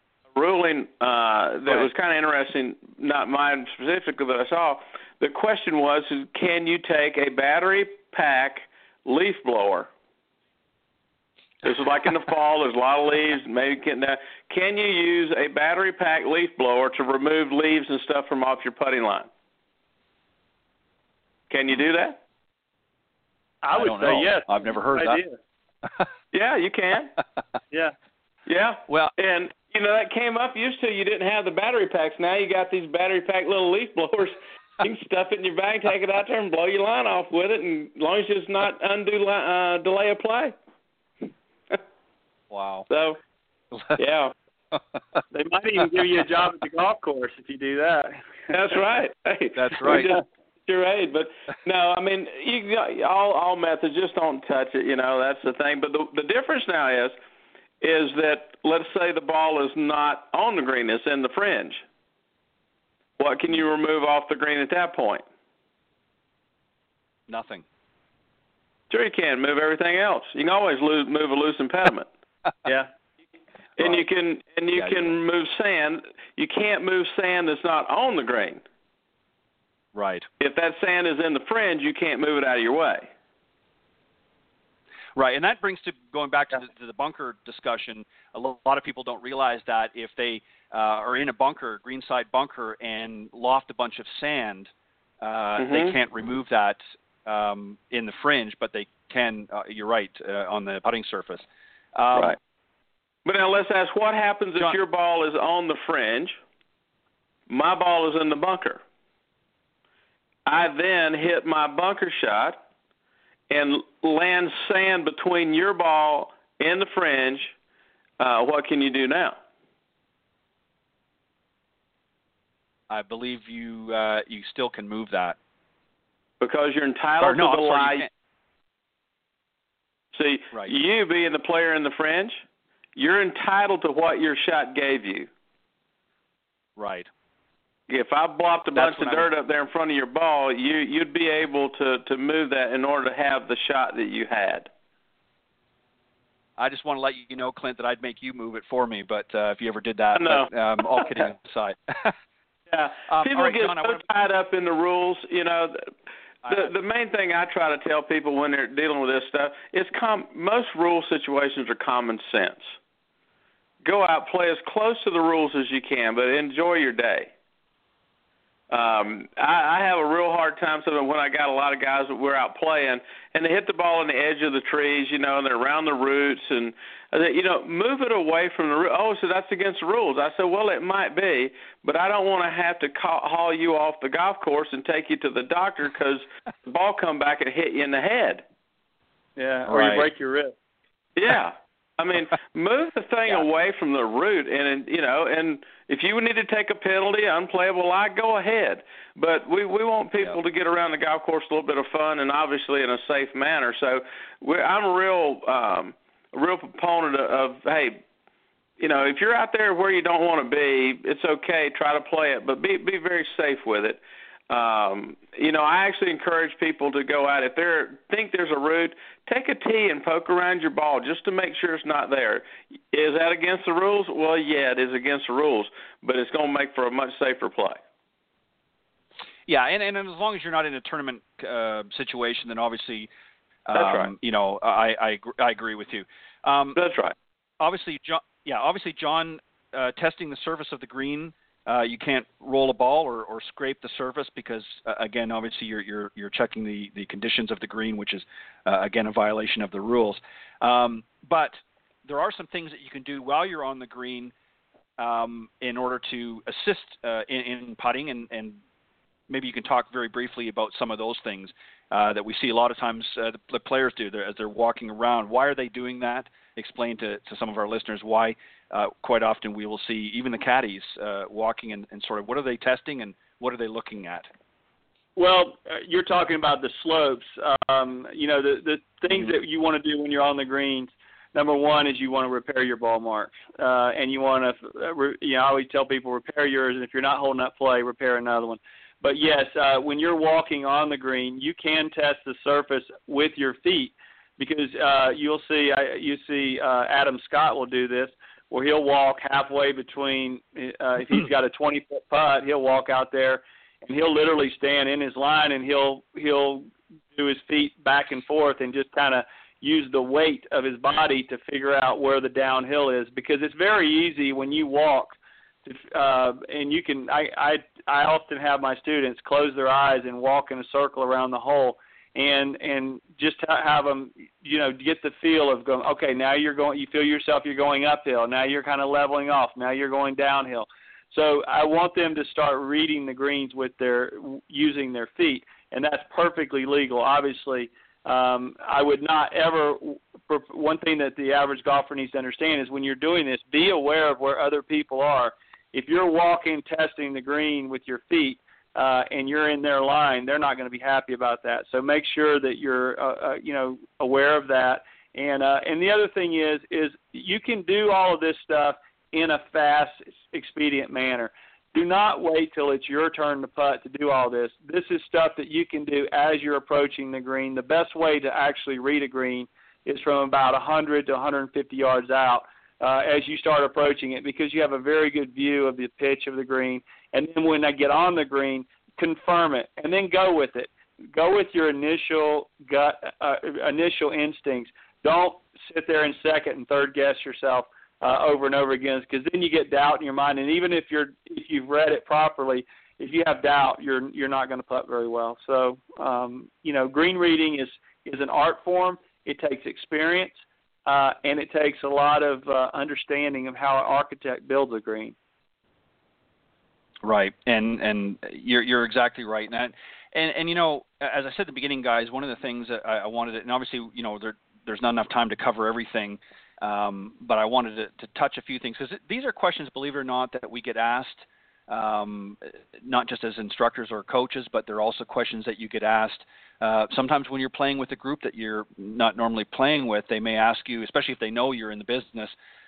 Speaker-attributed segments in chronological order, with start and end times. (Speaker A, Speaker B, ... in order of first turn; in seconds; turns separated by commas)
Speaker A: 0.3-9.9, Speaker A: 11.6-19.3, Speaker A: 21.5-22.2, Speaker B: 23.6-25.4, Speaker C: 23.7-25.2, Speaker A: 26.3-27.2, Speaker A: 28.5-40.5, Speaker C: 28.9-29.1, Speaker C: 42.5-42.9, Speaker A: 42.9-43.2, Speaker C: 43.7-44.0, Speaker A: 44.0-44.3, Speaker B: 45.3-48.2, Speaker A: 48.5-57.1, Speaker C: 49.6-50.1, Speaker A: 57.8-61.8, Speaker A: 63.2-65.2, Speaker C: 67.3-67.7, Speaker A: 68.9-72.1, Speaker A: 73.8-78.6, Speaker C: 74.8-75.1, Speaker C: 79.9-80.3, Speaker A: 80.4-83.1, Speaker C: 85.2-102.4, Speaker A: 95.6-95.9, Speaker A: 103.2-106.4, Speaker A: 107.5-108.8, Speaker A: 110.5-112.6, Speaker A: 113.5-117.5, Speaker A: 118.2-119.4, Speaker C: 122.9-125.4, Speaker A: 126.4-128.1, Speaker C: 127.2-128.1, Speaker A: 130.1-132.4, Speaker A: 133.0-135.3, Speaker C: 136.8-137.1, Speaker A: 137.9-144.7, Speaker C: 138.7-139.3, Speaker C: 146.6-152.2, Speaker A: 150.2-150.5, Speaker C: 153.0-154.0, Speaker A: 153.2-155.9, Speaker C: 156.4-156.7, Speaker A: 156.5-162.8, Speaker A: 163.8-167.3, Speaker A: 168.7-188.4, Speaker B: 189.4-190.6, Speaker C: 189.7-190.1, Speaker A: 191.2-208.0, Speaker A: 208.8-227.8, Speaker C: 229.5-233.1, Speaker C: 233.7-236.8, Speaker A: 233.7-234.1, Speaker A: 236.8-237.2, Speaker C: 237.6-254.3, Speaker C: 255.0-258.6, Speaker C: 259.3-274.3, Speaker B: 275.2-405.1, Speaker C: 407.0-432.3